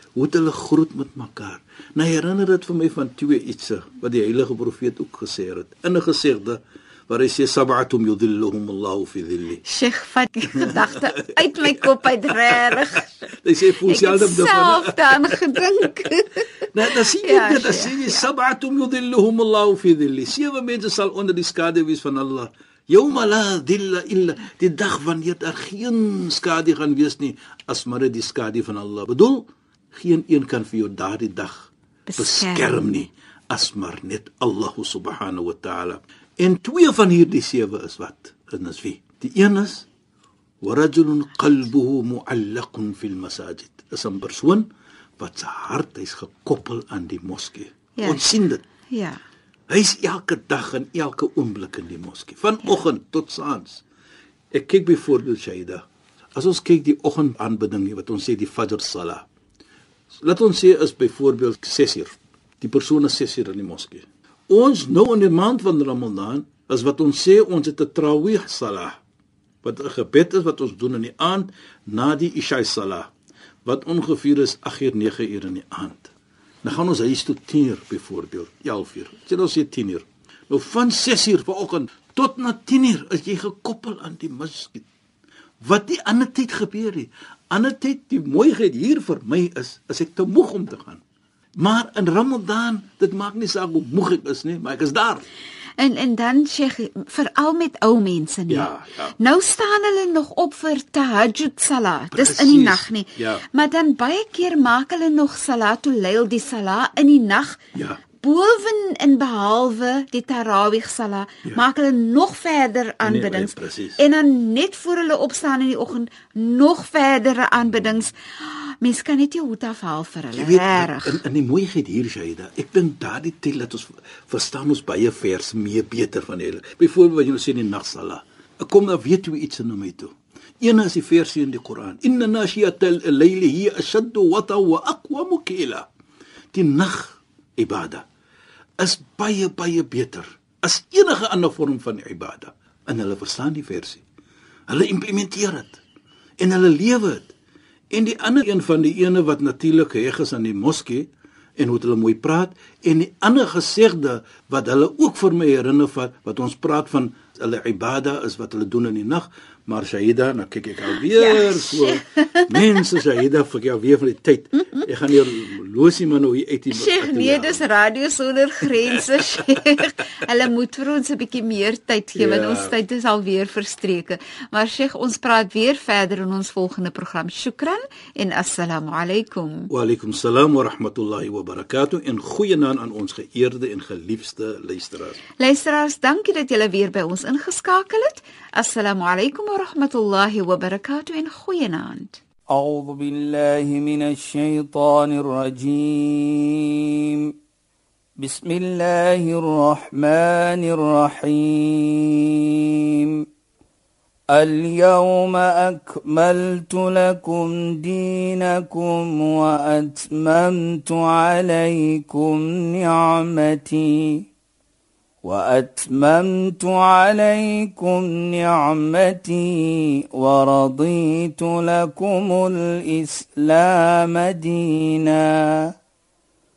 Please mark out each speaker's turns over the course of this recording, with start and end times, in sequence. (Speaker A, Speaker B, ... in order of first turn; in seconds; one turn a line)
Speaker A: 0.2-9.6
Speaker B: 9.6-13.2
Speaker A: 10.6-15.9
Speaker B: 13.8-18.3
Speaker A: 16.7-39.9
Speaker B: 32.1-33.0
Speaker A: 40.6-44.6
Speaker A: 45.2-48.6
Speaker B: 48.0-48.2
Speaker B: 48.9-49.2
Speaker A: 49.7-53.8
Speaker A: 54.5-55.8
Speaker A: 56.3-59.3
Speaker A: 60.2-69.0
Speaker A: 69.6-73.1
Speaker A: 73.6-84.9
Speaker A: 85.6-91.0
Speaker A: 91.6-95.2
Speaker B: 95.8-107.6
Speaker A: 98.5-99.1
Speaker A: 102.1-103.4
Speaker A: 107.7-108.0
Speaker B: 108.2-121.2
Speaker A: 113.0-114.0
Speaker A: 120.3-135.9
Speaker A: 136.5-138.1
Speaker A: 138.8-144.0
Speaker A: 144.7-145.8
Speaker A: 146.4-147.3
Speaker A: 147.9-167.7
Speaker B: 161.0-162.6
Speaker B: 166.7-179.7
Speaker A: 172.1-172.7
Speaker A: 179.7-185.2
Speaker B: 185.4-192.2
Speaker C: 192.5-197.3
Speaker C: 198.2-203.2
Speaker C: 204.3-214.2
Speaker C: 215.2-225.7